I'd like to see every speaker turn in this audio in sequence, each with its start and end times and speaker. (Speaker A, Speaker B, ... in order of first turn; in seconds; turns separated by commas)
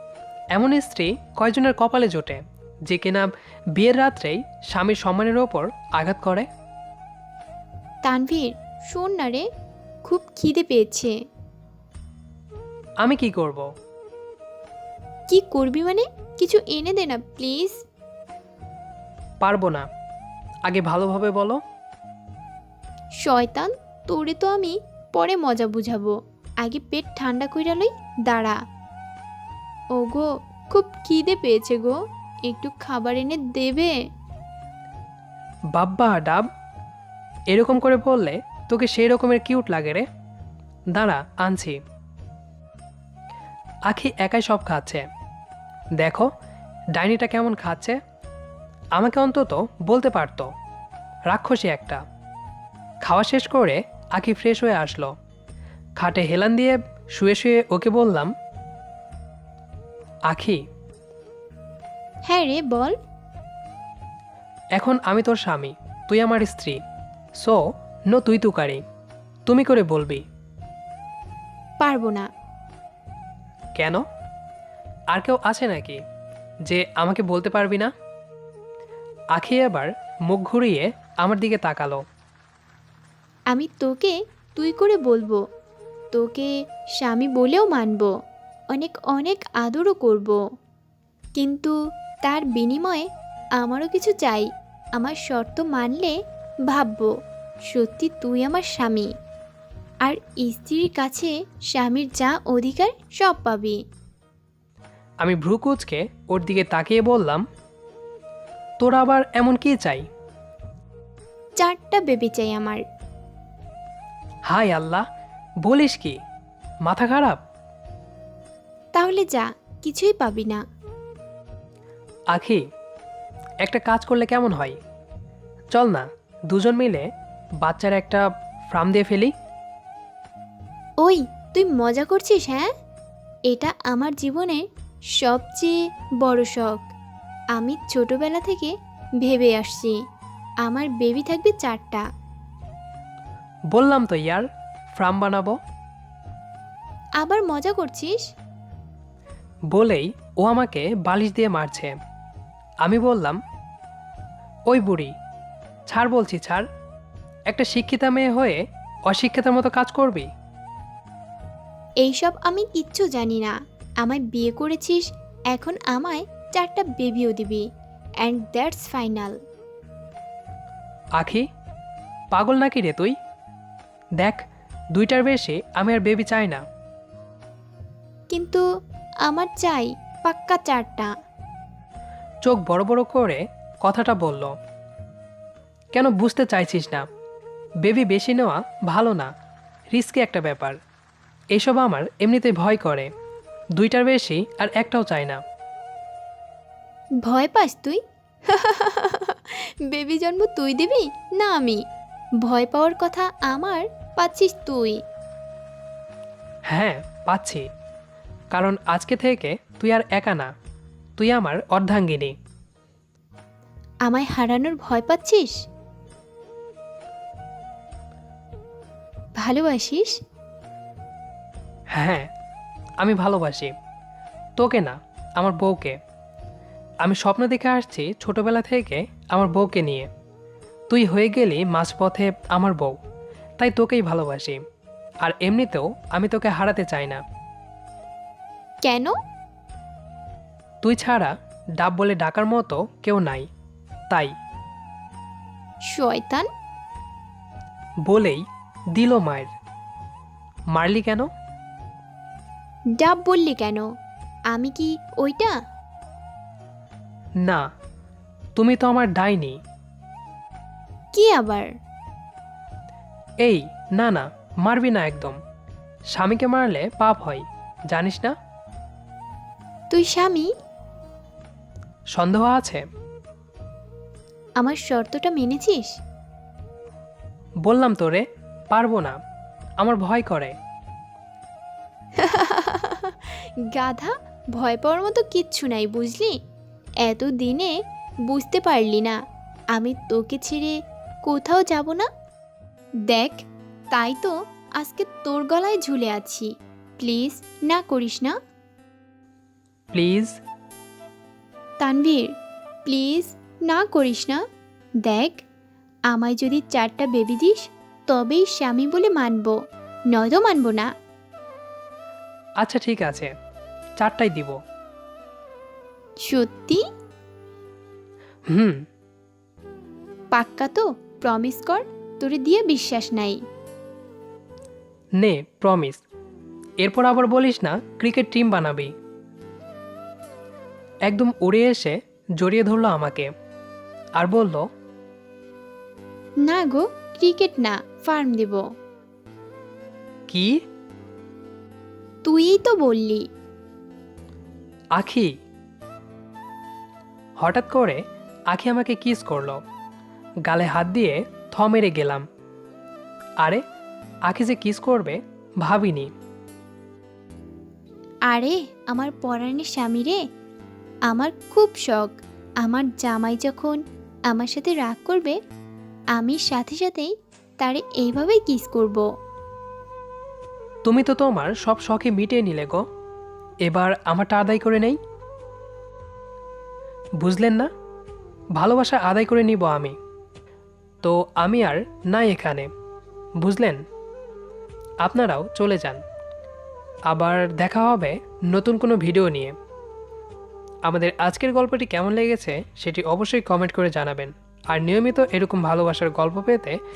Speaker A: 0.6-6.5, Speaker B: 8.0-9.4, Speaker B: 10.1-11.1, Speaker A: 13.0-13.7, Speaker B: 15.3-17.8, Speaker A: 19.4-19.9, Speaker A: 20.7-21.6, Speaker B: 23.2-28.6, Speaker B: 29.9-34.0, Speaker A: 35.7-36.5, Speaker A: 37.5-40.1, Speaker A: 40.9-41.8, Speaker A: 43.9-45.1, Speaker A: 46.0-46.3, Speaker A: 46.9-48.0, Speaker A: 49.0-50.5, Speaker A: 51.3-52.0, Speaker A: 53.0-55.1, Speaker A: 56.0-58.3, Speaker A: 60.3-60.6, Speaker B: 62.3-63.0, Speaker A: 64.8-66.8, Speaker A: 67.4-68.8, Speaker A: 69.5-70.2, Speaker B: 71.8-72.2, Speaker A: 73.8-74.0, Speaker A: 75.1-76.0, Speaker A: 76.7-77.9, Speaker A: 79.3-82.0, Speaker B: 83.5-85.4, Speaker B: 86.2-88.1, Speaker B: 88.7-90.4, Speaker B: 91.4-91.7, Speaker B: 92.2-93.0, Speaker B: 93.6-96.2, Speaker B: 96.7-97.1, Speaker B: 97.7-99.1, Speaker B: 100.0-103.8, Speaker A: 105.2-107.4, Speaker A: 108.8-110.0, Speaker B: 111.6-112.8, Speaker A: 114.5-115.0, Speaker A: 115.6-116.2, Speaker A: 116.9-117.4, Speaker B: 119.0-120.6, Speaker A: 122.3-122.6, Speaker A: 123.6-124.8, Speaker A: 125.7-127.1, Speaker A: 127.6-129.3, Speaker B: 131.0-132.7, Speaker B: 133.5-134.6, Speaker B: 135.2-135.7, Speaker B: 136.2-136.9, Speaker B: 137.6-139.9, Speaker B: 140.6-142.0, Speaker A: 143.7-145.6, Speaker B: 147.2-148.2, Speaker A: 149.7-151.9, Speaker A: 152.8-153.4, Speaker A: 154.7-155.1, Speaker A: 155.9-156.6, Speaker A: 157.5-160.3, Speaker B: 162.0-167.6, Speaker B: 168.2-169.3, Speaker A: 171.2-171.4, Speaker A: 172.3-173.1, Speaker A: 174.9-176.6, Speaker B: 178.3-178.6, Speaker B: 179.3-181.1, Speaker A: 182.4-184.6, Speaker A: 185.9-187.1, Speaker A: 187.8-189.3, Speaker A: 189.9-190.8, Speaker A: 191.5-193.1, Speaker A: 193.8-195.4, Speaker B: 197.2-201.8, Speaker B: 202.4-205.0, Speaker A: 206.7-207.7, Speaker A: 208.5-210.5, Speaker A: 211.2-212.3, Speaker B: 214.1-215.5, Speaker B: 219.4-220.1, Speaker A: 221.9-222.3, Speaker A: 223.0-223.7, Speaker A: 224.6-226.0, Speaker A: 227.0-230.1, Speaker A: 230.9-233.0, Speaker A: 233.6-234.6, Speaker A: 235.2-237.2, Speaker B: 238.8-239.1, Speaker A: 240.8-243.5, Speaker B: 245.9-246.5, Speaker A: 248.1-248.4, Speaker A: 248.9-249.5, Speaker A: 250.7-251.3, Speaker B: 253.0-253.9, Speaker B: 254.5-255.5, Speaker A: 258.6-259.6, Speaker B: 261.1-261.7, Speaker A: 263.4-265.4, Speaker A: 266.1-268.3, Speaker B: 269.9-270.5, Speaker A: 272.1-272.8, Speaker B: 274.6-275.9, Speaker A: 277.6-279.2, Speaker A: 279.8-280.6, Speaker B: 282.2-286.4, Speaker B: 287.0-287.7, Speaker B: 288.3-289.1, Speaker B: 289.8-290.7, Speaker B: 291.3-292.1, Speaker B: 293.1-298.3, Speaker A: 299.9-300.4, Speaker B: 301.8-302.3, Speaker B: 302.9-304.4, Speaker B: 305.0-305.4, Speaker B: 306.1-309.6, Speaker B: 310.1-310.9, Speaker A: 312.6-313.3, Speaker A: 314.0-314.6, Speaker B: 316.3-316.8, Speaker A: 318.5-318.8, Speaker B: 320.3-323.4, Speaker A: 325.2-326.0, Speaker A: 326.8-328.9, Speaker A: 331.1-333.3, Speaker A: 334.2-334.6, Speaker B: 336.5-338.6, Speaker A: 340.3-340.5, Speaker B: 342.3-343.2, Speaker A: 345.0-345.3, Speaker A: 347.4-348.0, Speaker A: 348.5-349.6, Speaker A: 350.5-352.2, Speaker A: 354.3-356.1, Speaker B: 358.3-360.2, Speaker B: 361.1-363.8, Speaker B: 364.3-365.4, Speaker B: 366.2-369.0, Speaker A: 370.9-372.8, Speaker A: 373.7-375.0, Speaker A: 377.2-377.7, Speaker A: 378.6-379.9, Speaker A: 381.0-382.7, Speaker A: 383.4-383.8, Speaker A: 385.0-386.0, Speaker A: 387.1-389.5, Speaker A: 390.9-396.8